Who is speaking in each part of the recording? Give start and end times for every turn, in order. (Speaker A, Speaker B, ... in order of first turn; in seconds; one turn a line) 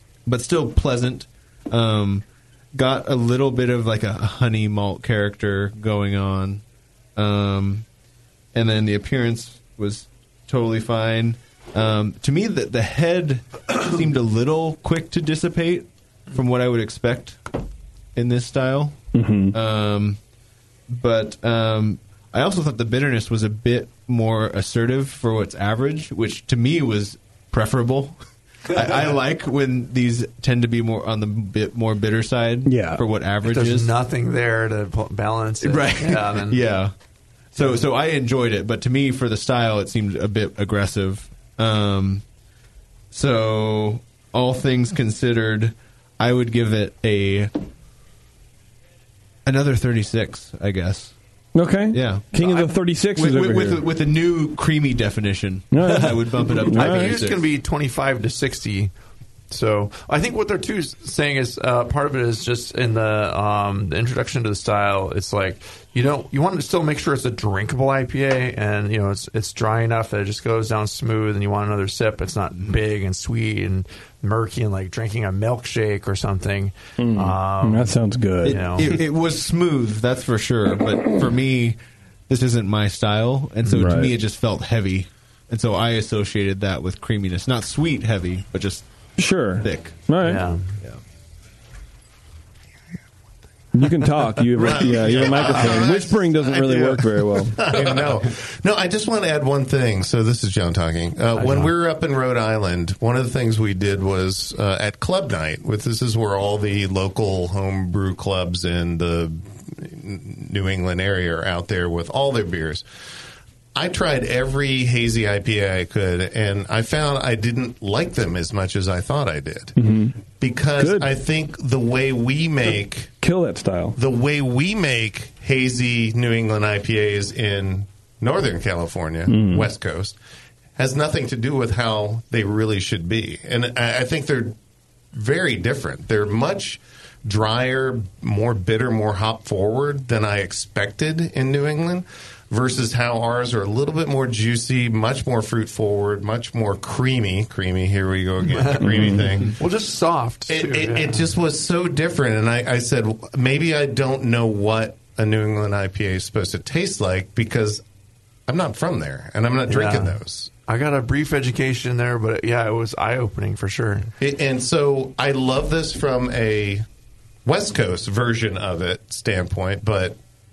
Speaker A: 0.2-6.6
Speaker A: 7.2-7.8
Speaker A: 8.5-17.4
Speaker A: 18.1-19.0
Speaker B: 19.1-19.5
Speaker A: 19.5-20.2
Speaker A: 20.9-28.1
Speaker A: 28.7-33.9
Speaker B: 32.6-33.0
Speaker C: 33.4-36.6
Speaker A: 35.6-36.9
Speaker A: 37.5-42.2
Speaker A: 43.1-47.5
Speaker A: 49.5-51.1
Speaker B: 51.5-53.8
Speaker A: 51.9-57.4
Speaker B: 55.7-57.2
Speaker C: 55.8-58.9
Speaker C: 59.5-79.0
Speaker B: 77.0-78.6
Speaker A: 78.4-81.8
Speaker A: 82.3-88.8
Speaker B: 83.7-84.1
Speaker B: 89.2-90.4
Speaker A: 89.5-90.0
Speaker C: 90.2-90.8
Speaker B: 93.7-97.6
Speaker D: 94.5-112.8
Speaker C: 101.3-101.7
Speaker D: 113.7-119.8
Speaker B: 119.8-120.2
Speaker D: 120.4-123.1
Speaker B: 120.8-121.1
Speaker B: 123.2-124.0
Speaker D: 124.0-130.2
Speaker B: 129.3-129.7
Speaker D: 130.8-134.6
Speaker D: 135.1-149.6
Speaker C: 148.5-151.2
Speaker B: 148.9-149.2
Speaker D: 150.5-157.8
Speaker D: 158.5-160.5
Speaker C: 159.7-164.1
Speaker D: 164.2-166.8
Speaker D: 167.4-170.2